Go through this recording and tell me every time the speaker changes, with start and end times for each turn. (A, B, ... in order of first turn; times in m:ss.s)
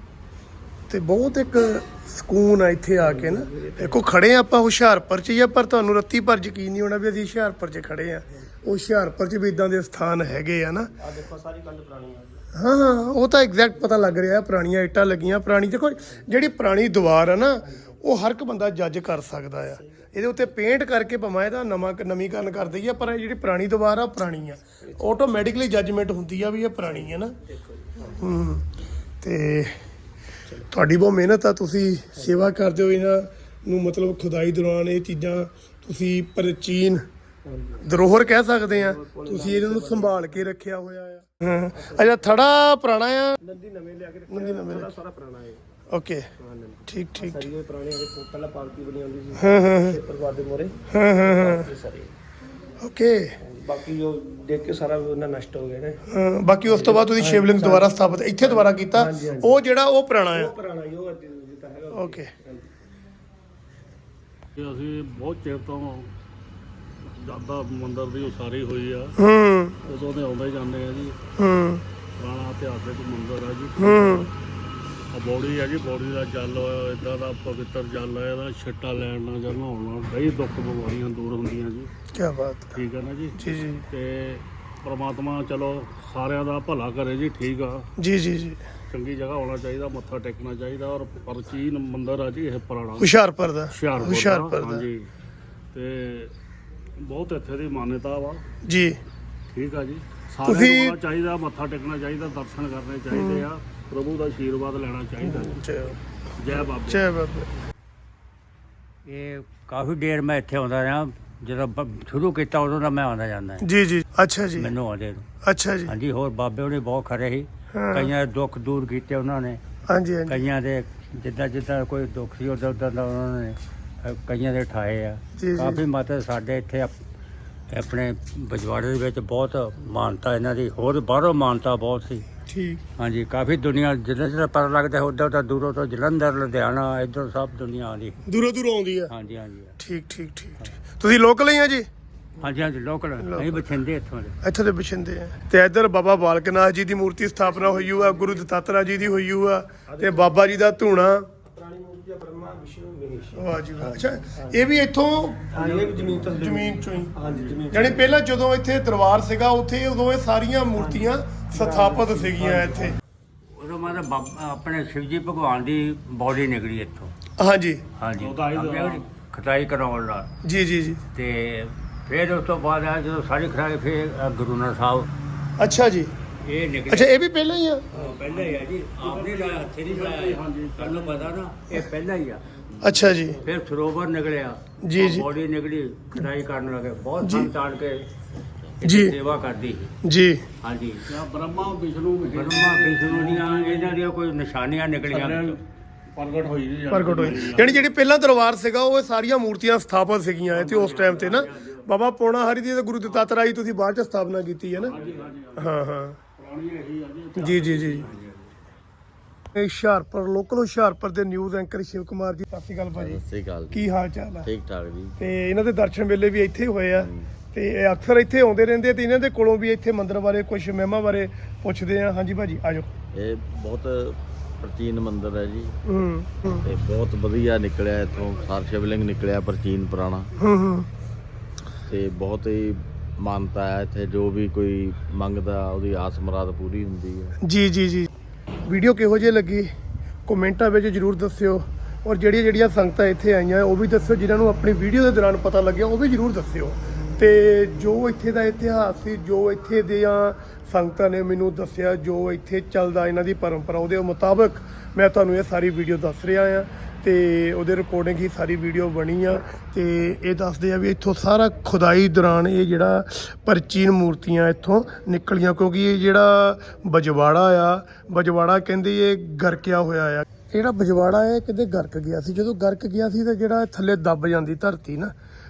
0:00.9-0:10.9 A
0:03.0-0:04.0 B
0:11.0-0:12.4 B
0:12.5-0:27.4 A
0:16.1-0:16.4 B
0:17.6-0:17.9 B
0:19.6-0:20.4 B
0:24.8-0:25.4 B
0:26.8-0:28.2 B
0:28.2-0:28.7 A
0:29.2-0:29.8 A
0:30.7-0:37.0 A
0:37.4-0:37.8 B
0:37.8-0:43.4 A
0:38.7-0:40.5 B
0:41.7-0:42.4 B
0:43.4-0:45.6 B
0:44.3-0:44.9 A
0:45.9-0:46.3 A
0:46.4-0:52.2 B
0:46.9-0:47.5 A
0:49.4-0:50.0 A
0:50.9-0:51.7 A
0:52.8-0:53.4 A
0:53.4-0:56.0 B
0:56.1-1:00.5 A
0:56.7-0:59.6 B
1:00.3-1:02.7 B
1:01.9-1:02.3 A
1:04.6-1:06.1 C
1:07.0-1:09.2 C
1:09.2-1:09.8 A
1:09.8-1:11.2 C
1:11.4-1:11.8 A
1:12.2-1:14.3 C
1:13.8-1:14.3 A
1:15.1-1:21.9 C
1:22.1-1:22.8 A
1:22.7-1:27.8 C
1:23.4-1:23.8 A
1:28.0-1:28.6 A
1:28.9-1:33.1 C
1:33.0-1:34.9 A
1:33.7-1:35.1 C
1:35.7-1:36.3 C
1:37.0-1:38.4 C
1:38.6-1:39.0 A
1:39.5-1:45.6 C
1:40.4-1:41.0 A
1:43.1-1:43.4 A
1:45.2-1:46.0 A
1:46.4-1:47.1 C
1:46.6-1:47.5 A
1:49.1-1:53.7 D
1:53.6-1:54.7 A
1:54.6-1:55.2 D
1:55.4-1:55.9 A
1:55.9-1:59.6 D
1:57.7-1:58.1 A
1:59.9-2:00.4 A
2:00.3-2:06.9 D
2:05.4-2:05.8 A
2:07.7-2:12.3 D
2:12.5-2:12.8 A
2:13.0-2:18.2 D
2:18.3-2:19.1 A
2:19.1-2:19.8 D
2:19.8-2:21.9 A
2:22.4-2:24.3 D
2:23.2-2:23.6 A
2:24.4-2:31.3 A
2:27.5-2:28.4 B
2:29.9-2:30.4 B
2:31.4-2:34.7 B
2:33.4-2:37.2 A
2:35.5-2:38.2 B
2:37.3-2:37.6 C
2:37.7-2:43.0 A
2:40.8-2:43.0 B
2:43.5-2:47.1 D
2:47.4-2:47.8 A
2:48.0-2:50.3 D
2:48.2-2:49.1 C
2:50.4-2:51.0 A
2:51.2-2:55.1 D
2:55.6-2:56.1 A
2:56.4-2:57.1 D
2:56.9-2:57.9 A
2:57.9-3:08.1 D
2:57.9-3:01.4 C
3:02.8-3:03.4 A
3:04.8-3:05.3 A
3:07.2-3:07.5 A
3:08.8-3:09.9 D
3:08.8-3:09.2 A
3:10.0-3:10.4 A
3:10.6-3:11.0 D
3:11.1-3:14.0 C
3:12.3-3:15.6 D
3:15.1-3:15.6 C
3:16.1-3:17.9 C
3:16.9-3:24.9 A
3:20.5-3:21.8 C
3:24.8-3:25.8 C
3:25.6-3:26.2 A
3:26.4-3:28.2 C
3:27.4-3:28.1 A
3:27.5-3:28.4 D
3:29.5-3:34.5 A
3:33.0-3:33.9 E
3:34.4-3:35.1 E
3:35.2-3:42.9 A
3:37.0-3:37.3 E
3:43.1-3:45.7 E
3:45.9-3:46.7 A
3:46.6-3:50.3 E
3:50.4-3:50.9 A
3:51.9-3:57.3 E
3:57.4-3:58.1 A
3:58.7-3:59.7 A
4:00.3-4:35.1 A